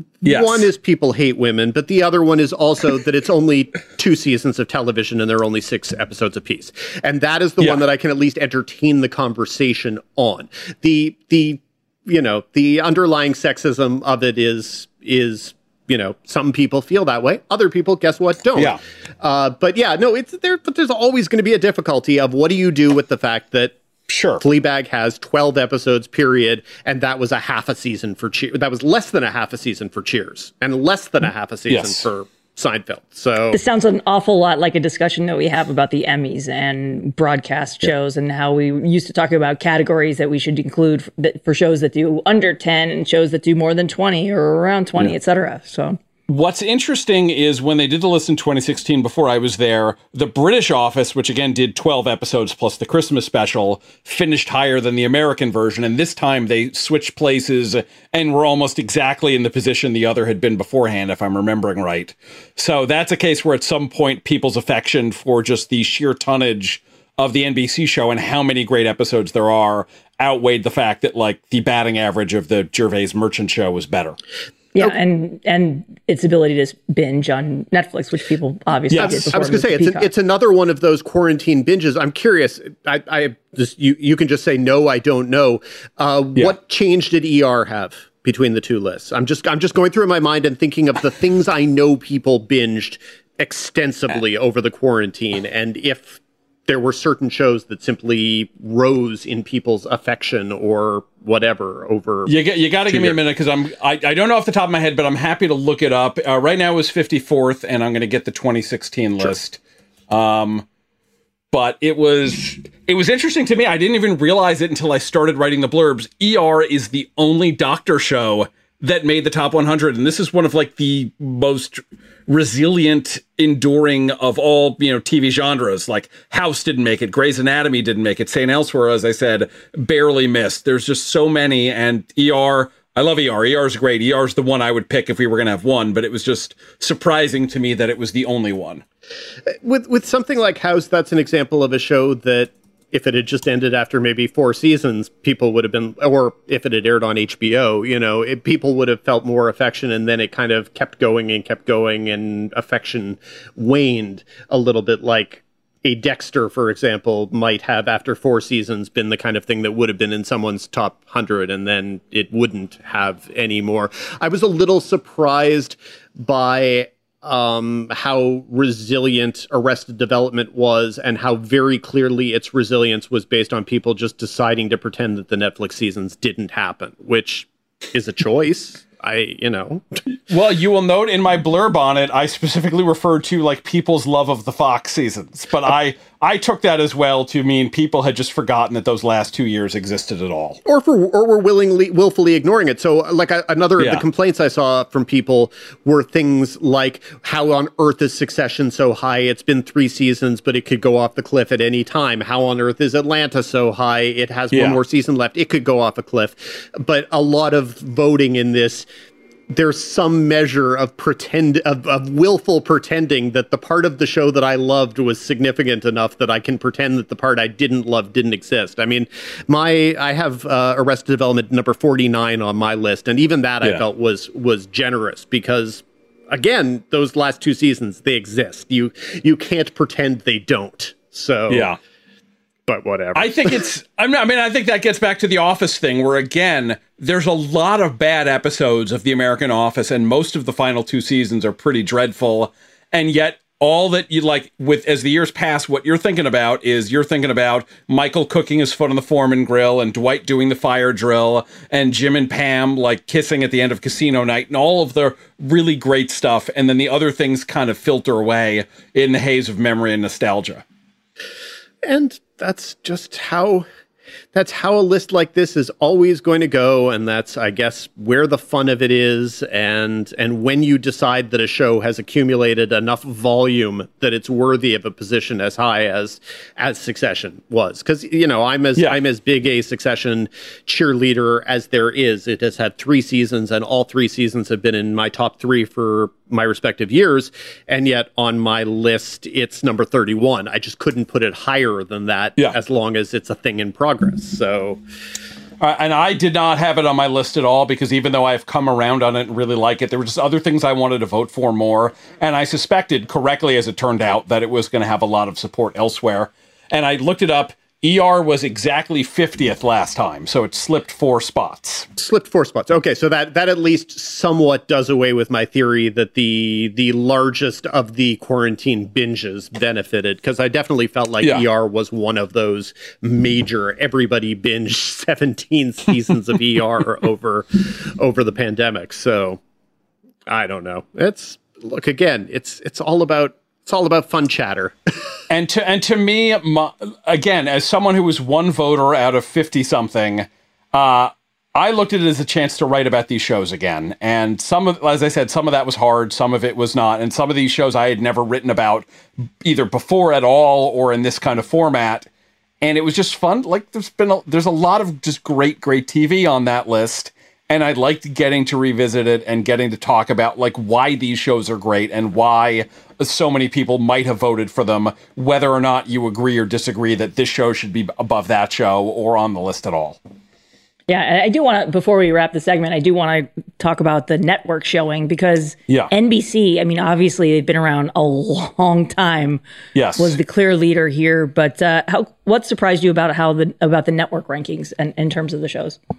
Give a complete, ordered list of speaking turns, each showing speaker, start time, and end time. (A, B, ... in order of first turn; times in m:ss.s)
0:00.2-0:23.8 A
0:00.2-0:00.7 B
0:24.1-0:24.4 B
0:24.4-0:33.6 A
0:31.7-0:32.0 B
0:33.5-0:46.0 C
0:46.3-1:14.2 B
1:14.7-1:20.1 C
1:18.9-1:19.4 B
1:19.0-1:42.4 A
1:42.3-1:49.6 B
1:42.9-1:43.2 A
1:50.1-1:50.6 B
1:51.5-2:18.8 B
2:19.5-3:00.0 A
3:00.2-3:10.6 B
3:10.6-3:28.9 A
3:13.8-3:14.0 B
3:24.5-3:24.8 B
3:29.5-3:51.7 A
3:51.5-3:51.8 B
3:52.7-3:53.7 A
3:53.2-4:20.6 B
4:21.8-4:23.7 A
4:24.3-4:54.8 A
4:55.6-5:11.9 B
5:12.0-5:29.4 A
5:30.3-5:34.8 A
5:35.3-5:48.9 B
5:49.4-5:52.1 B
5:52.6-6:10.0 B
6:10.9-6:19.4 C
6:19.8-6:20.2 B
6:20.0-6:25.8 C